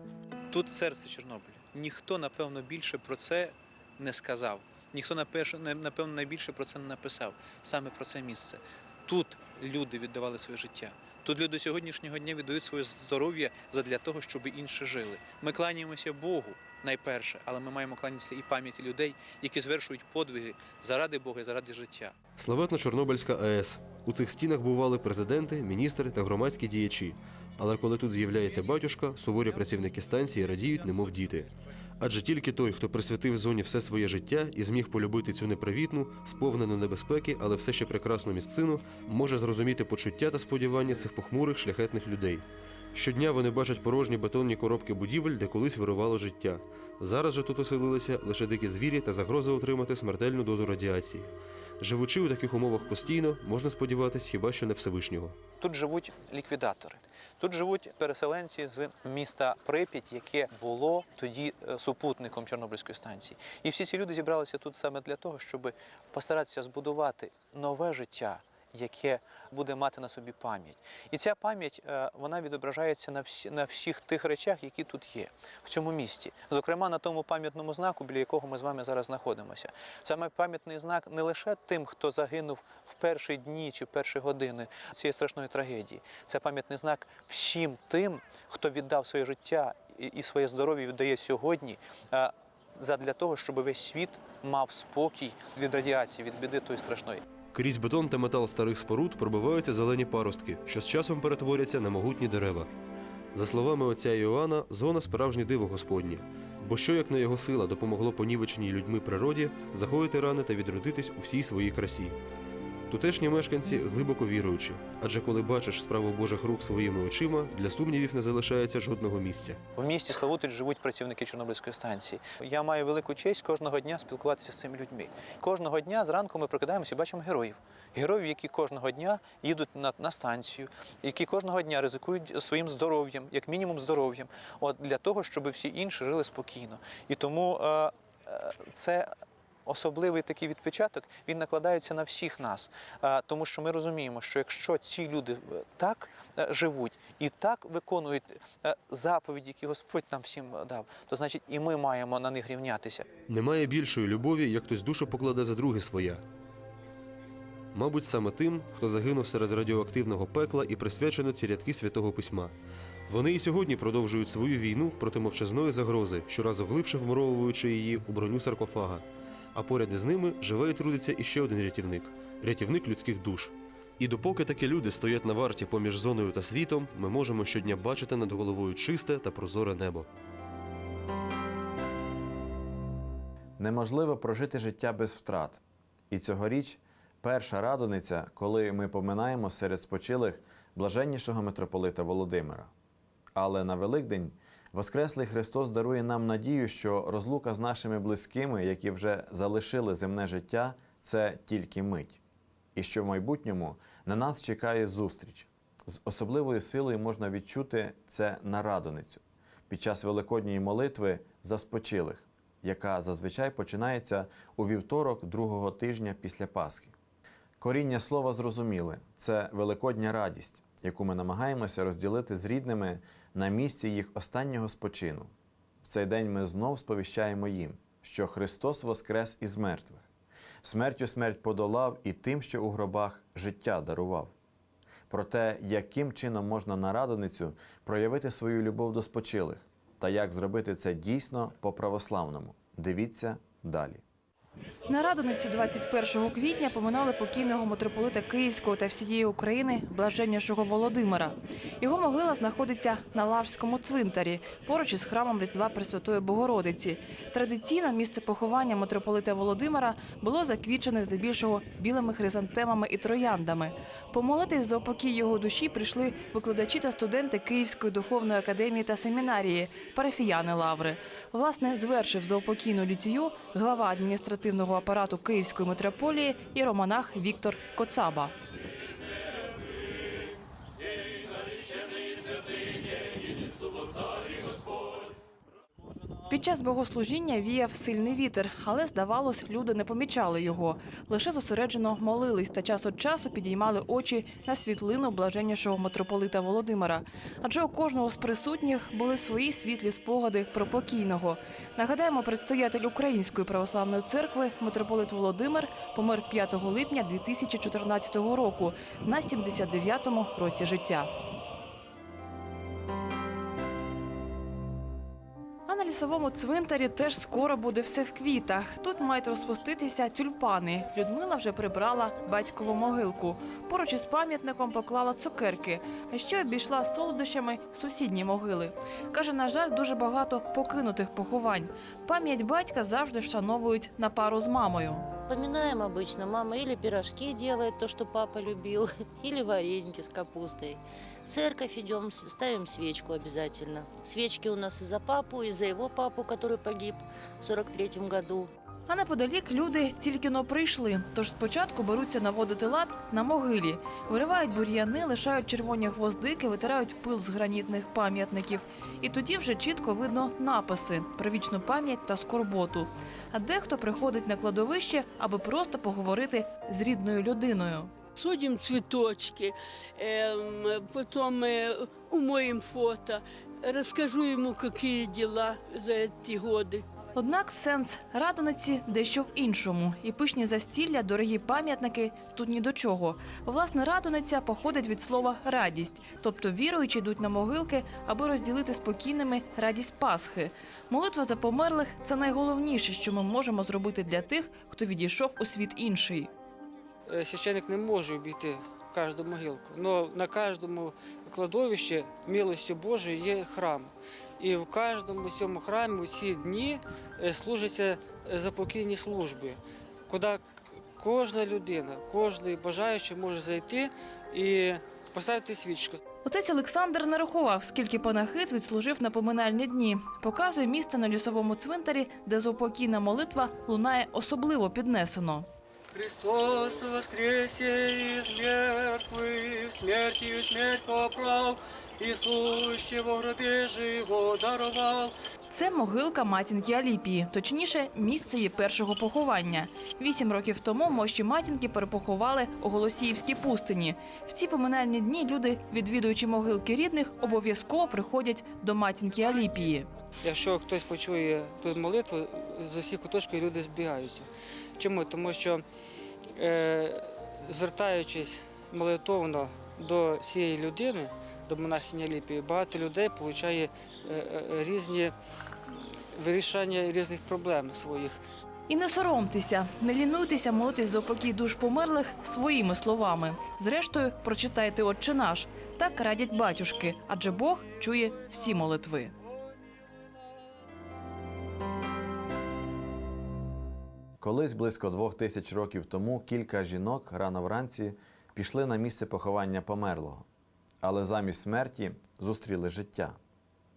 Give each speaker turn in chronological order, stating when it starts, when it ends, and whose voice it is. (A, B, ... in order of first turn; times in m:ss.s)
0:00.5-0:22.1 A
0:22.4-0:55.4 B
0:55.6-1:37.2 A
1:37.5-1:42.7 B
1:43.3-1:52.2 B
1:52.9-1:59.6 B
1:59.8-2:19.1 A
2:19.6-2:33.0 A
2:33.3-2:36.2 B
2:37.7-2:42.5 B
2:43.1-3:00.1 B
3:03.6-3:12.7 C
3:13.3-3:22.2 C
3:22.8-3:36.9 C
3:37.6-3:45.3 C
3:45.8-3:50.0 C
3:50.6-3:54.3 C
3:55.1-4:04.0 C
4:04.9-4:38.3 D
4:46.3-5:11.1 D
5:15.7-5:35.1 D
5:35.3-5:48.5 E
5:48.9-6:07.9 D
6:08.2-6:16.8 F
6:17.1-6:36.3 D
6:37.1-6:50.4 G
6:51.0-6:56.0 G
6:56.2-7:05.5 D
7:05.9-7:15.1 G
7:15.5-7:29.9 D
7:30.2-7:35.6 G
7:36.3-7:45.1 G
7:46.1-7:48.2 G
7:48.7-7:59.1 D
8:04.2-8:10.2 C
8:10.8-8:13.2 C